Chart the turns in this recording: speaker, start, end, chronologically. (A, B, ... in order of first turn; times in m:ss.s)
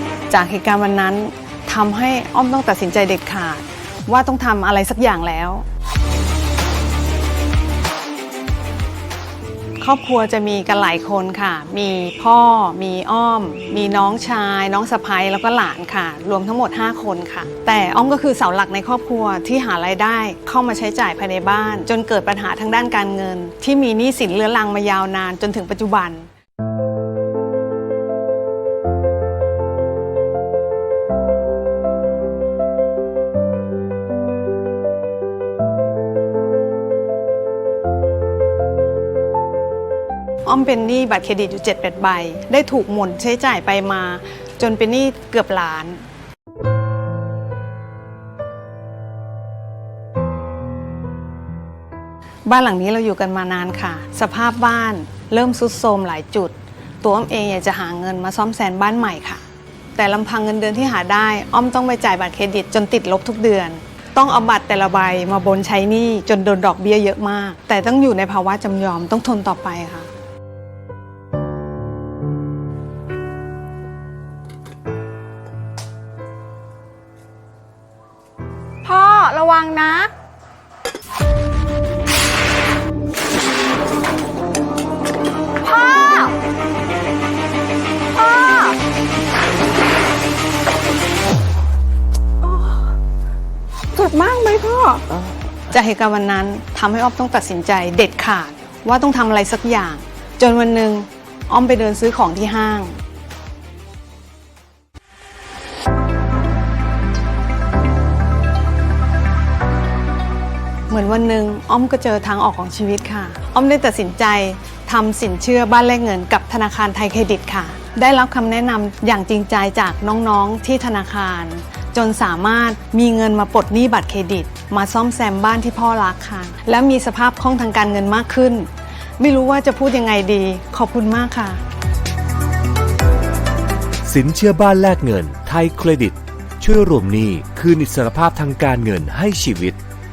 0:00.3-0:05.6 A
0:09.8-0:26.3 A
0:40.4-0:46.0 A
0:52.4-0:59.4 A
1:00.0-1:10.1 A
1:18.8-1:20.0 B
1:19.3-1:20.0 A
1:25.6-1:26.3 B
1:28.2-1:28.7 B
1:32.4-1:32.8 B
1:33.9-1:35.0 B
1:35.7-1:43.0 A
1:50.9-2:08.7 A
2:09.2-2:11.6 A
2:14.0-2:19.8 C